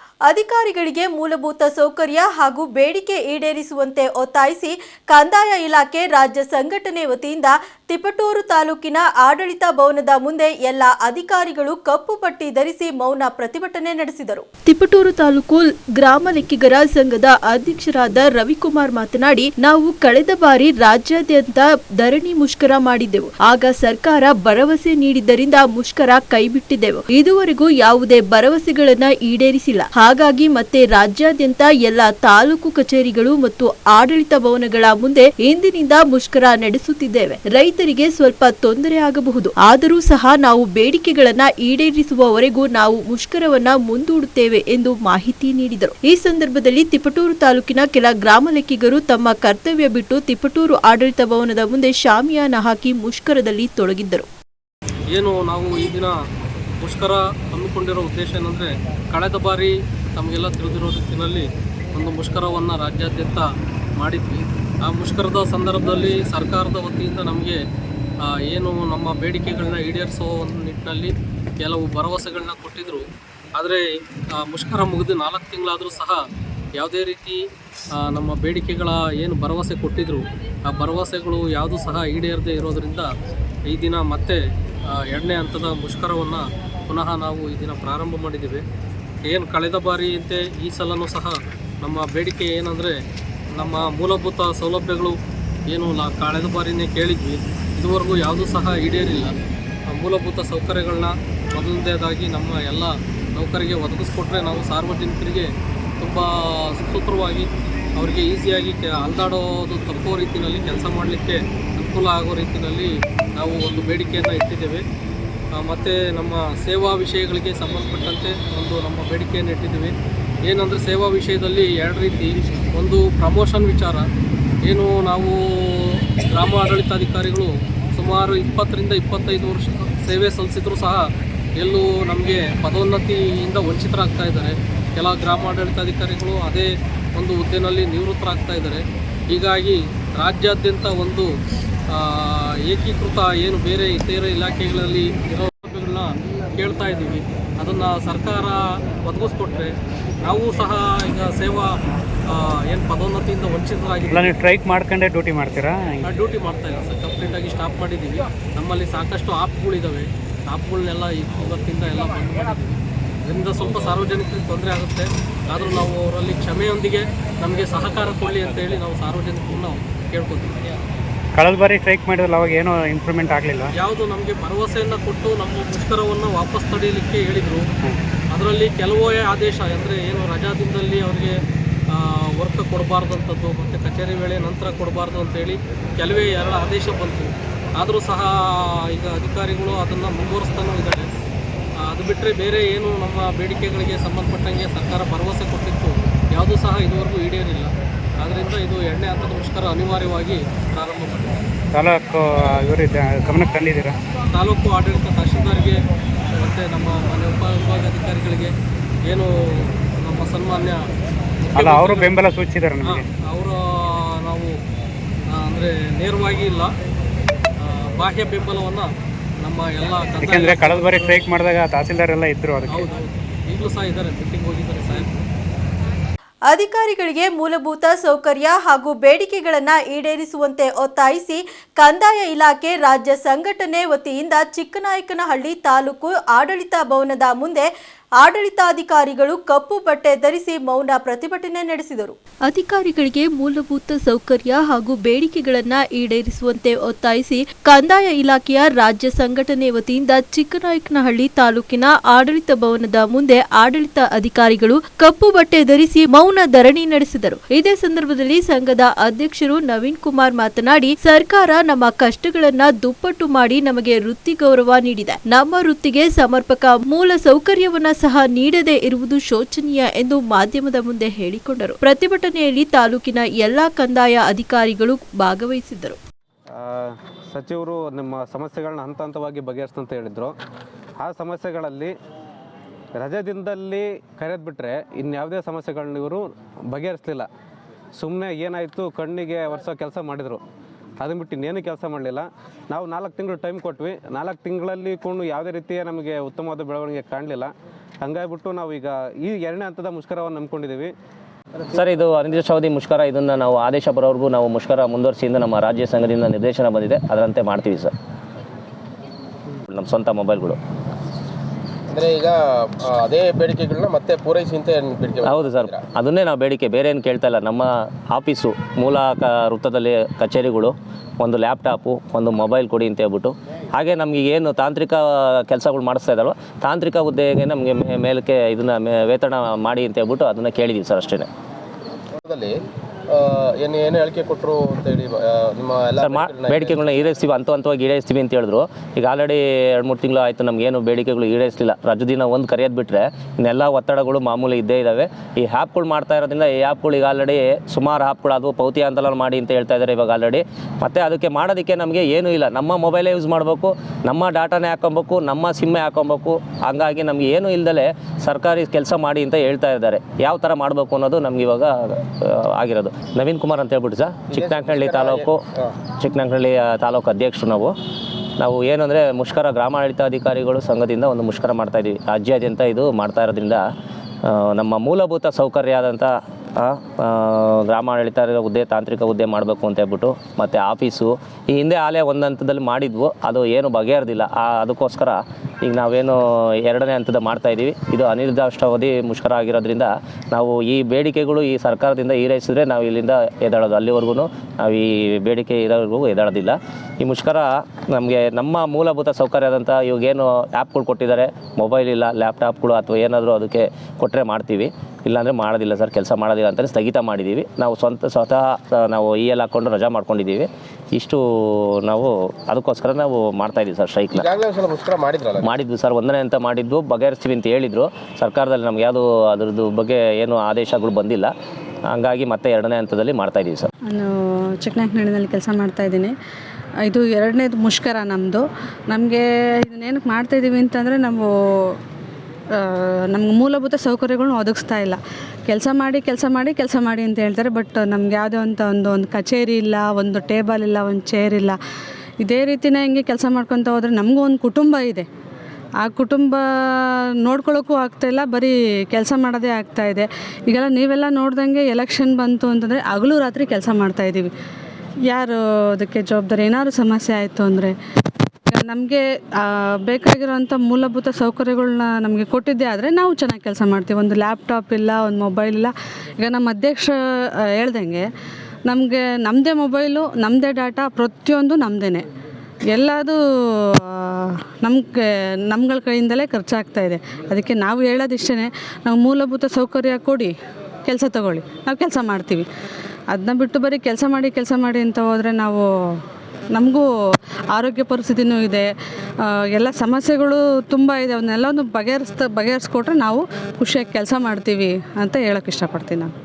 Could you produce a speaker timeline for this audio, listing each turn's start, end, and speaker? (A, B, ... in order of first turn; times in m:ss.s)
0:00.3-0:54.3 A
0:55.1-0:56.2 B
0:56.8-1:03.5 B
1:04.0-1:07.6 B
1:08.3-1:13.0 B
1:13.6-1:13.8 B
1:14.4-1:16.2 B
1:16.8-1:17.4 B
1:18.0-1:23.1 B
1:23.7-1:24.4 B
1:25.1-1:28.6 B
1:29.2-1:33.0 B
1:33.6-1:35.2 B
1:35.7-1:39.3 B
1:39.9-1:45.5 B
1:46.0-1:46.3 B
1:46.8-1:54.8 B
1:55.6-1:59.9 B
2:00.5-2:04.0 B
2:04.7-2:11.0 B
2:11.6-2:21.3 B
2:21.9-2:29.7 B
2:30.2-2:31.8 B
2:32.3-2:34.4 B
2:34.1-2:36.0 C
2:36.0-2:50.7 B
2:51.4-2:53.7 C
2:53.8-2:57.7 B
2:58.3-3:01.4 B
3:01.9-3:11.0 B
3:11.9-3:21.4 B
3:21.7-3:24.0 C
3:24.3-3:25.8 B
3:26.4-3:28.5 B
3:30.0-3:30.8 B
3:31.5-3:32.2 B
3:31.6-3:33.0 C
3:32.8-3:34.6 B
3:35.3-3:36.7 B
3:37.6-3:38.9 B
3:39.4-3:41.2 B
3:40.2-3:42.9 C
3:42.7-3:45.1 B
3:46.5-3:57.7 A
3:58.2-4:36.0 A
4:36.6-4:40.3 D
4:41.0-4:41.9 D
4:43.0-4:47.3 D
4:48.0-4:50.4 D
4:51.0-5:00.9 D
5:01.7-5:07.9 E
5:09.7-5:10.6 E
5:11.9-5:15.8 F
5:15.2-5:31.3 E
5:32.2-5:32.6 F
5:33.1-5:37.0 F
5:36.0-6:05.4 E
6:04.3-6:05.7 F
6:06.0-6:07.7 E
6:08.4-6:13.6 E
6:14.3-6:54.2 E
6:54.1-6:55.5 F
6:55.4-7:01.3 E
7:01.9-7:03.7 E
7:03.9-7:06.1 G
7:06.8-7:11.8 G
7:12.6-7:21.6 G
7:22.2-7:25.1 G
7:25.8-7:34.3 G
7:35.1-7:37.8 G
7:38.5-7:46.9 G
7:47.6-7:48.1 G
7:48.7-7:52.0 G
7:52.7-7:53.2 G
7:53.8-8:00.3 G
8:00.9-8:02.4 G
8:03.1-8:06.0 G
8:06.6-8:06.8 G
8:07.5-8:08.7 G
8:09.3-8:16.1 G